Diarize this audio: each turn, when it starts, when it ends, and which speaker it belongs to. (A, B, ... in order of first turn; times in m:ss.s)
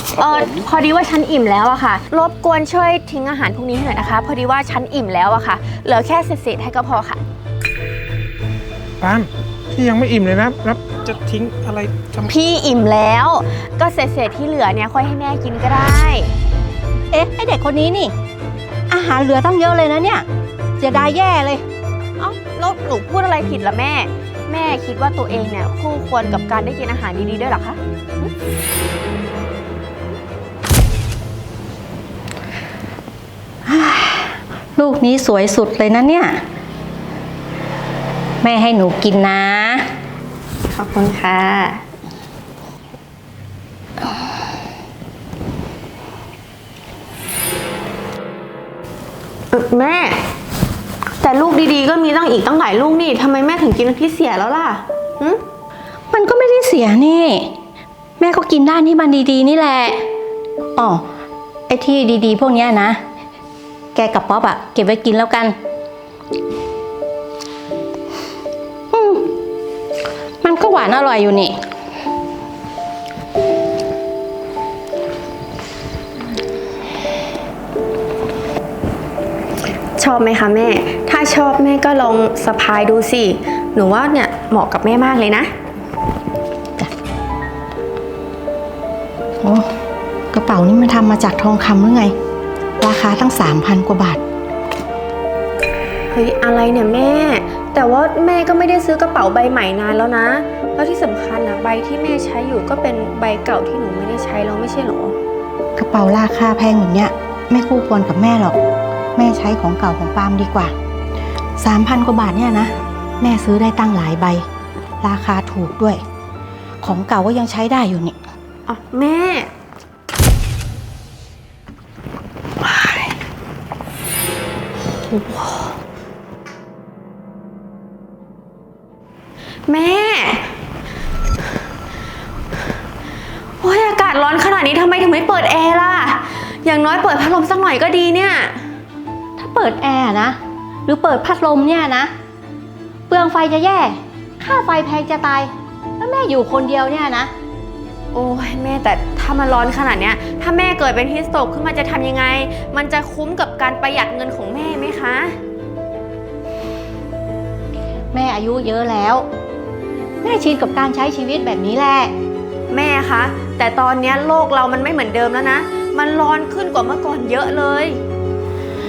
0:00.2-0:07.2 A
0:09.0-0:12.3 B
0:12.3-0:16.3 A
0:17.1-0:18.1 C
0:18.9-0:20.3 C
0:20.8-0:21.6 C
0:22.2-0:27.8 A
0:33.7-0:36.4 C
0:38.4-0:39.9 C
0:40.7-0:41.8 A
0:49.5-0:50.2 A
0:51.2-0:55.4 A
0:56.1-0:57.6 C
0:58.2-1:00.1 C
1:00.8-1:01.0 C
1:01.7-1:03.0 C
1:03.9-1:05.6 C
1:08.9-1:09.3 C
1:10.4-1:11.6 C
1:20.0-1:25.5 A
1:29.4-1:29.7 C
1:30.3-1:32.1 C
1:32.8-1:34.2 C
1:36.1-1:45.2 A
1:45.8-1:48.6 C
1:49.2-1:50.7 C
1:51.6-1:54.4 C
1:55.0-1:56.0 C
1:56.8-1:58.2 C
1:58.7-1:59.5 A
2:02.6-2:03.1 A
2:05.0-2:05.7 A
2:09.7-2:10.5 A
2:13.6-2:18.6 A
2:19.4-2:22.1 C
2:23.1-2:27.3 C
2:28.1-2:35.4 A
2:38.1-2:39.3 C
2:40.2-2:42.1 C
2:42.7-2:48.0 A